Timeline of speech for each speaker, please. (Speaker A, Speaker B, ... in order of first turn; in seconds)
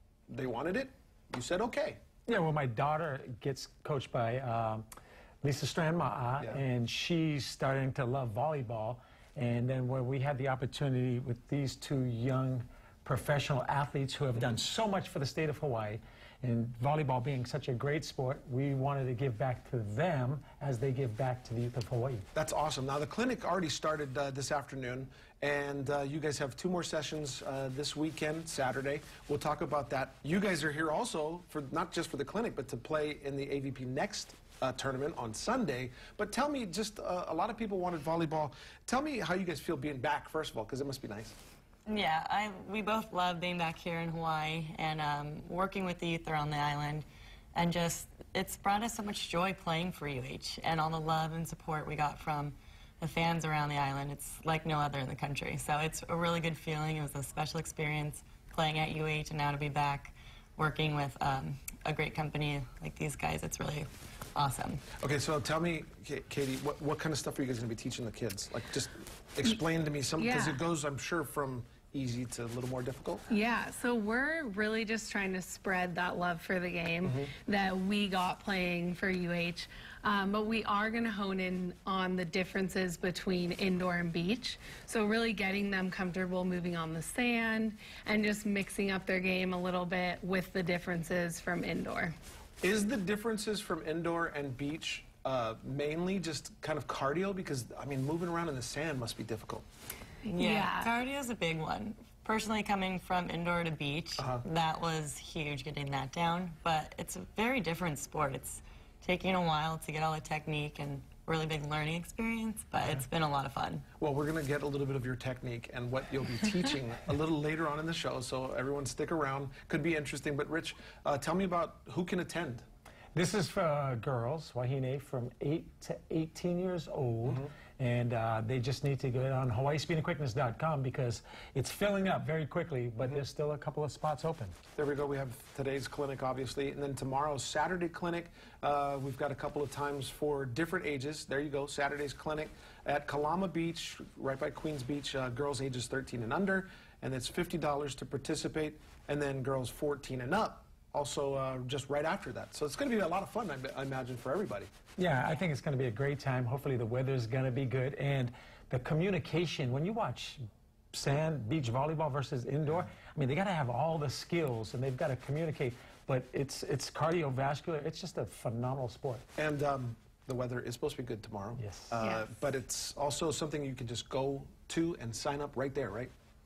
Speaker A: 0.3-2.0, 22.3-41.4, 65.0-73.3, 77.0-77.3, 92.6-99.7, 104.2-104.4, 114.0-122.7, 127.2-127.5, 134.8-154.7, 169.4-176.1
Speaker B: 2.3-4.8, 5.4-22.3, 123.1-134.6, 155.0-160.4, 160.9-169.2, 171.6-172.0
Speaker C: 41.9-64.8, 100.3-113.8
Speaker D: 70.2-70.6, 73.3-92.1, 100.3-100.9